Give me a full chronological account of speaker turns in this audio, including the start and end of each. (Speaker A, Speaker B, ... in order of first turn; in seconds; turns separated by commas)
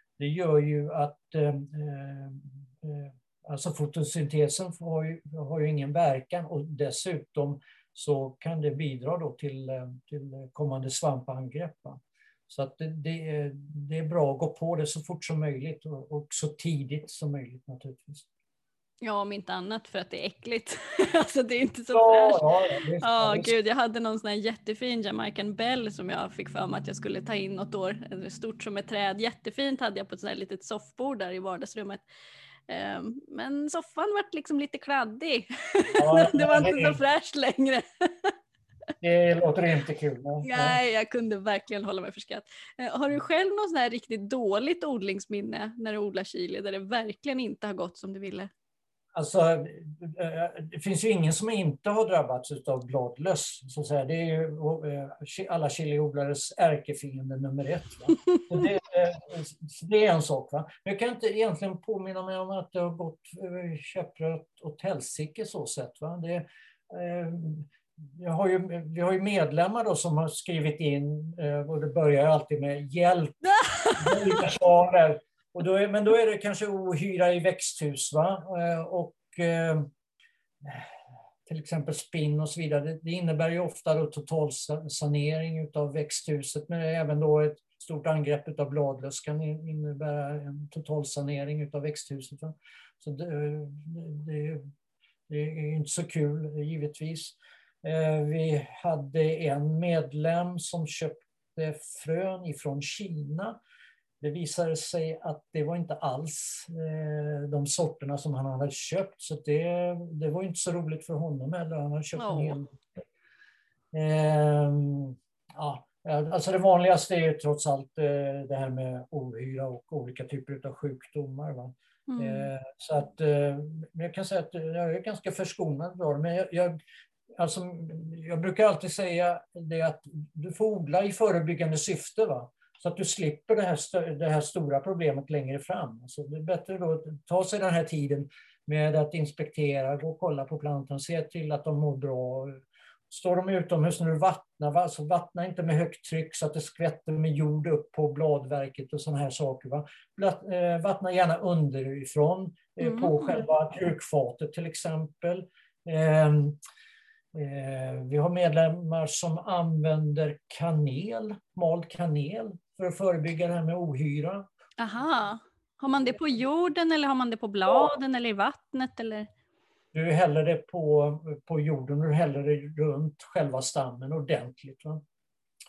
Speaker A: 0.2-18.3, Speaker B: 19.0-22.4, Speaker A: 21.9-23.5, Speaker B: 23.0-32.0, Speaker B: 32.7-38.3, Speaker A: 36.0-37.0, Speaker A: 39.0-40.8, Speaker B: 40.4-48.5, Speaker A: 49.1-73.4, Speaker B: 73.6-74.4, Speaker A: 74.0-79.9, Speaker A: 80.6-80.9, Speaker A: 81.5-94.7, Speaker A: 95.3-103.6, Speaker A: 104.2-112.7, Speaker B: 112.2-112.6, Speaker A: 113.9-126.8, Speaker B: 122.1-122.5, Speaker A: 127.4-156.6, Speaker B: 152.8-153.4, Speaker A: 157.3-164.5, Speaker B: 164.8-169.3, Speaker A: 167.7-167.9, Speaker A: 169.9-175.0